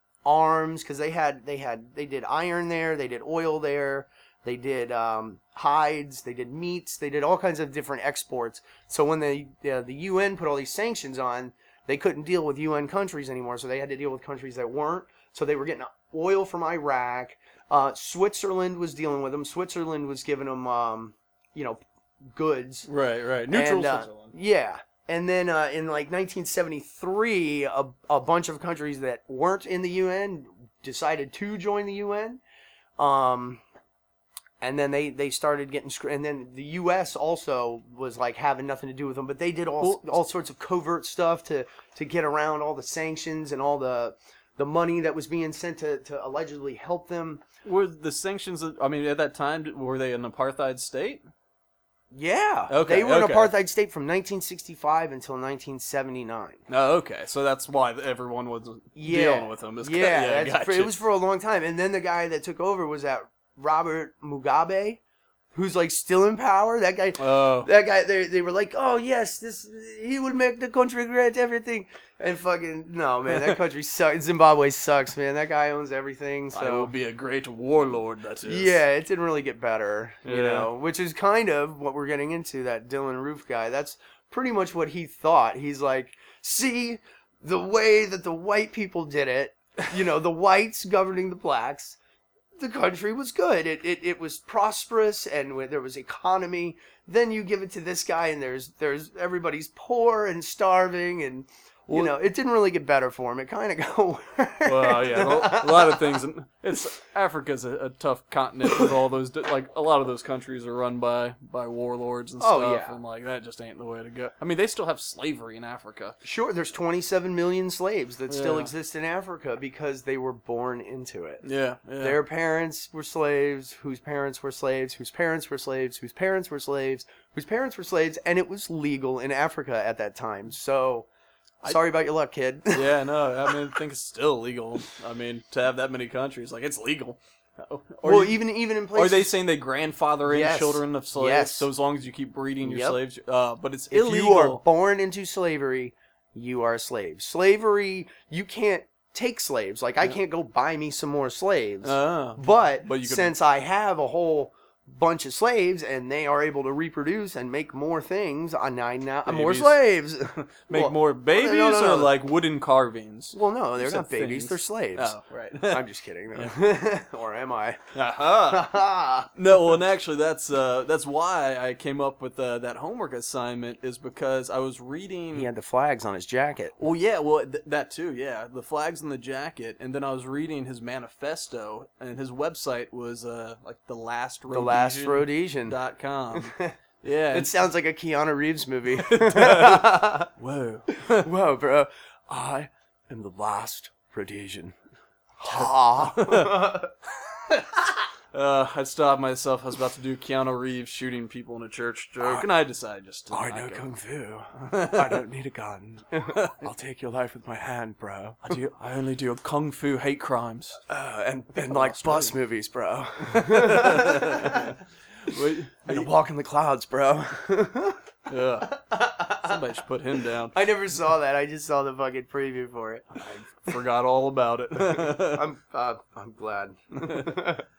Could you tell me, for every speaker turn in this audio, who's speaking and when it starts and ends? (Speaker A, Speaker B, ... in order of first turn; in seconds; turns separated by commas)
Speaker A: 0.2-21.8, Speaker A: 22.3-22.9, Speaker B: 22.9-24.3, Speaker A: 23.5-32.4, Speaker A: 33.0-33.6, Speaker A: 34.6-47.4, Speaker B: 39.8-40.1, Speaker B: 47.6-51.2, Speaker A: 52.1-56.6, Speaker B: 52.7-53.5, Speaker B: 56.7-60.9, Speaker A: 58.9-65.0, Speaker A: 65.5-76.9, Speaker B: 67.2-67.7, Speaker B: 76.5-78.8, Speaker A: 78.4-92.0, Speaker B: 80.2-80.7, Speaker A: 92.6-106.2, Speaker B: 101.9-102.2, Speaker B: 104.6-116.2, Speaker A: 112.4-113.0, Speaker A: 116.2-121.4, Speaker B: 118.3-118.7, Speaker B: 121.4-122.2, Speaker A: 122.0-131.1, Speaker A: 131.6-133.6, Speaker B: 132.7-138.4, Speaker A: 138.0-139.4, Speaker B: 138.9-144.6, Speaker A: 140.3-141.7, Speaker A: 142.6-143.0, Speaker A: 143.9-162.1, Speaker B: 151.8-153.3, Speaker B: 159.2-159.8, Speaker B: 160.6-166.5, Speaker A: 163.3-169.3, Speaker B: 167.9-168.7, Speaker B: 169.3-175.5, Speaker A: 175.3-176.7, Speaker B: 176.8-187.5, Speaker A: 184.5-185.8, Speaker A: 186.3-186.7, Speaker A: 187.3-190.3, Speaker B: 189.0-191.3, Speaker A: 190.9-194.7, Speaker A: 195.4-196.9, Speaker B: 195.5-196.7, Speaker B: 197.5-197.8, Speaker B: 198.3-203.8, Speaker A: 202.2-202.5, Speaker A: 203.3-208.6, Speaker B: 204.6-205.2, Speaker B: 208.4-210.8, Speaker A: 210.9-218.0, Speaker B: 211.5-212.3, Speaker B: 213.2-216.1, Speaker B: 218.3-218.7, Speaker A: 218.6-219.6, Speaker B: 219.4-220.5, Speaker A: 220.5-223.8, Speaker B: 223.2-225.4, Speaker A: 224.8-227.6, Speaker B: 226.9-227.4